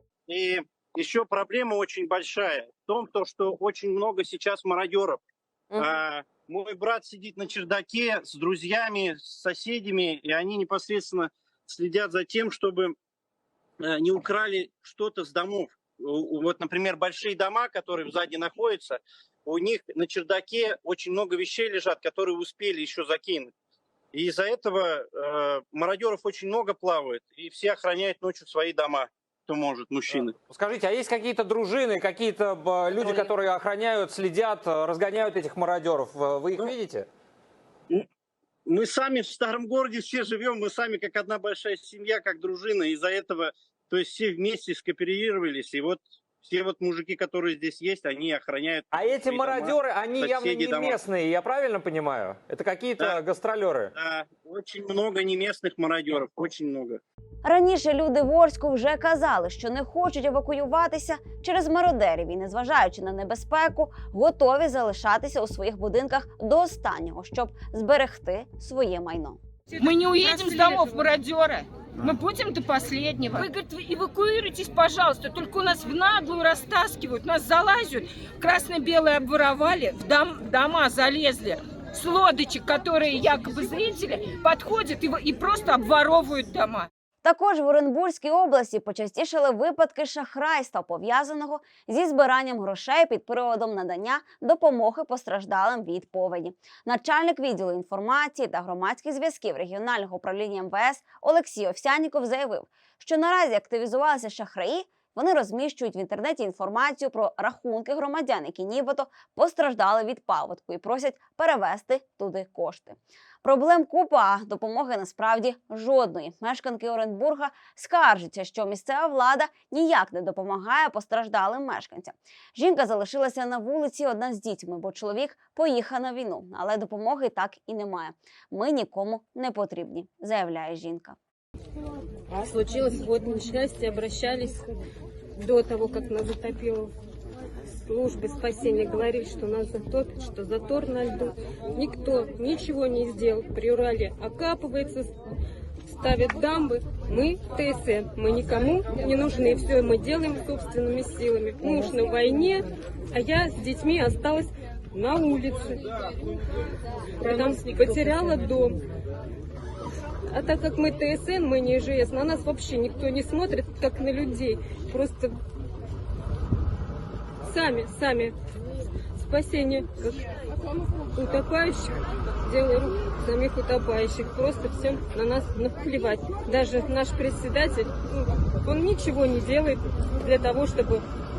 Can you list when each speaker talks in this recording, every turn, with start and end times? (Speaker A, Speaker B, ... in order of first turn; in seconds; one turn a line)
Speaker A: 0.3-5.2
Speaker A: 5.7-12.9
Speaker A: 13.8-23.5
Speaker A: 24.1-30.3
Speaker B: 30.1-37.1
Speaker A: 38.7-51.0
Speaker B: 48.9-53.9
Speaker A: 54.0-57.0
Speaker C: 57.4-69.4
Speaker D: 69.7-86.9
Speaker C: 87.2-131.2
Speaker E: 132.3-134.7
Speaker E: 135.4-136.9
Speaker E: 137.9-145.2
Speaker E: 145.9-155.9
Speaker E: 157.2-158.8
Speaker E: 160.3-165.3
Speaker E: 167.4-168.3
Speaker E: 169.2-170.3
Speaker E: 171.2-181.0